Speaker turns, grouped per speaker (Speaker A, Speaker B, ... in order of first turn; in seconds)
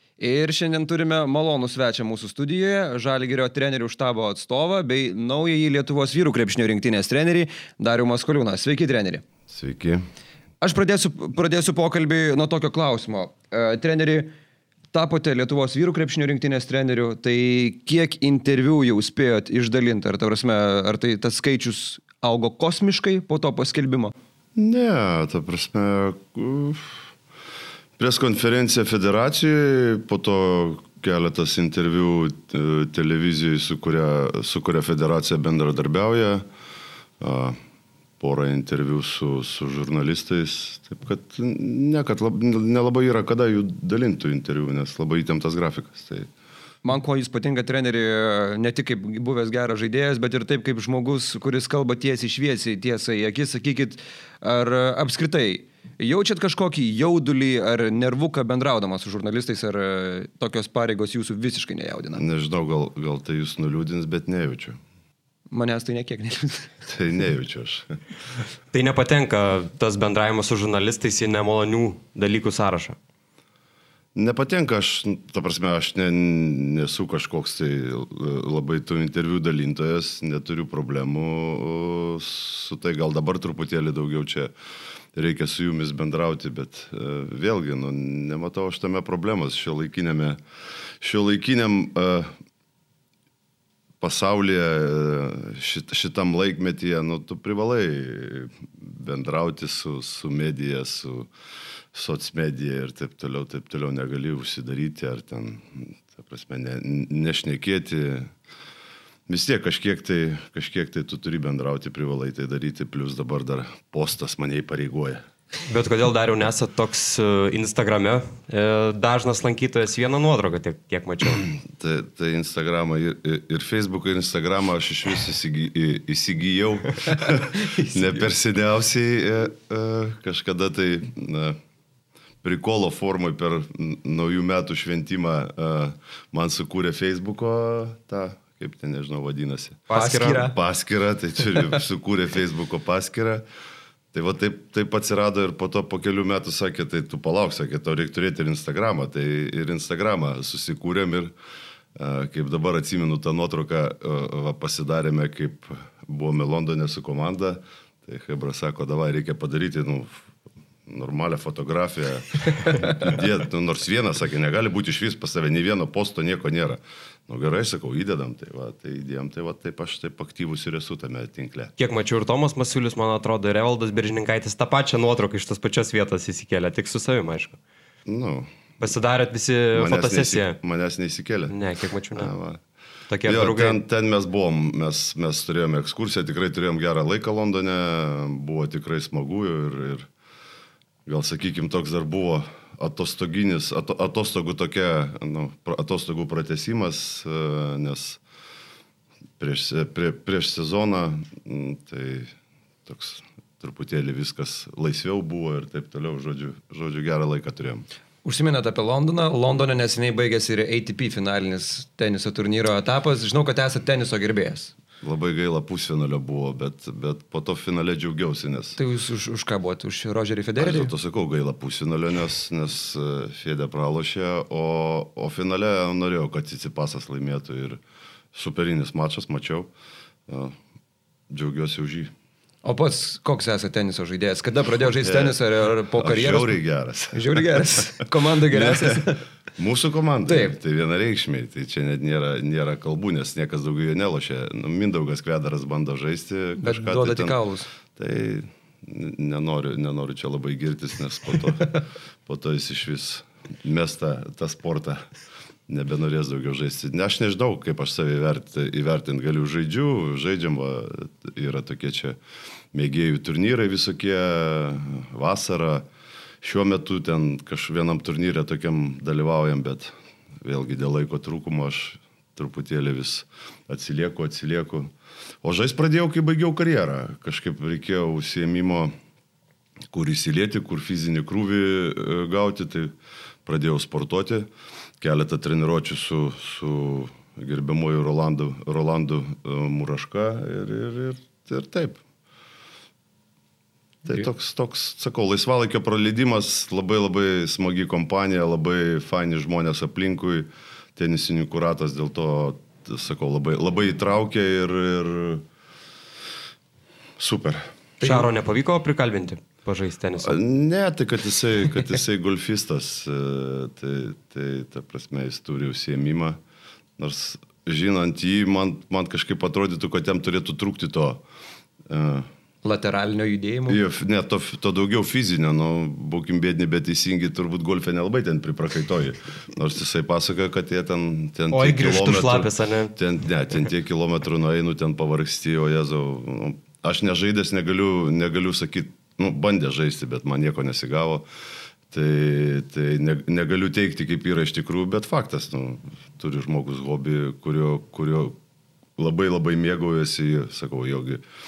Speaker A: 0.2-9.2, 10.6-14.3, 14.9-24.1, 46.8-62.2, 65.5-66.7, 139.9-140.6, 208.2-214.7, 218.8-220.9, 232.6-236.6, 237.1-239.2, 240.3-240.6, 246.6-247.7, 308.0-308.3, 322.6-323.8
Speaker B: 9.5-10.0, 24.6-26.9, 28.0-36.4, 37.2-37.6, 38.2-46.3, 62.1-64.8, 66.9-67.9, 74.1-84.5, 85.1-90.4, 91.0-92.3, 94.0-101.3, 101.9-108.3, 109.3-115.2, 121.6-131.6, 132.4-139.8, 140.4-143.4, 144.1-151.3, 151.9-160.2, 160.8-171.7, 178.1-178.5, 179.7-181.5, 182.1-182.6, 183.2-190.1, 191.1-198.2, 199.4-202.3, 202.8-207.9, 215.0-218.8, 220.6-227.8, 228.3-229.7, 230.3-230.6, 231.3-232.1, 234.9-235.4, 235.9-237.8, 238.5-247.4, 247.9-255.0, 255.7-262.2, 262.7-265.9, 266.4-274.9, 275.4-278.9, 279.9-282.9, 283.4-284.5, 285.0-292.0, 294.0-305.4, 307.2-307.6, 310.2-316.4, 317.0-321.2, 321.9-322.3, 323.7-341.2, 341.9-348.4, 349.0-351.2
Speaker C: 68.7-73.0, 115.7-121.5, 139.9-140.5, 171.8-177.6, 178.8-180.6, 181.5-182.3, 183.1-183.8, 308.0-310.4, 331.5-332.9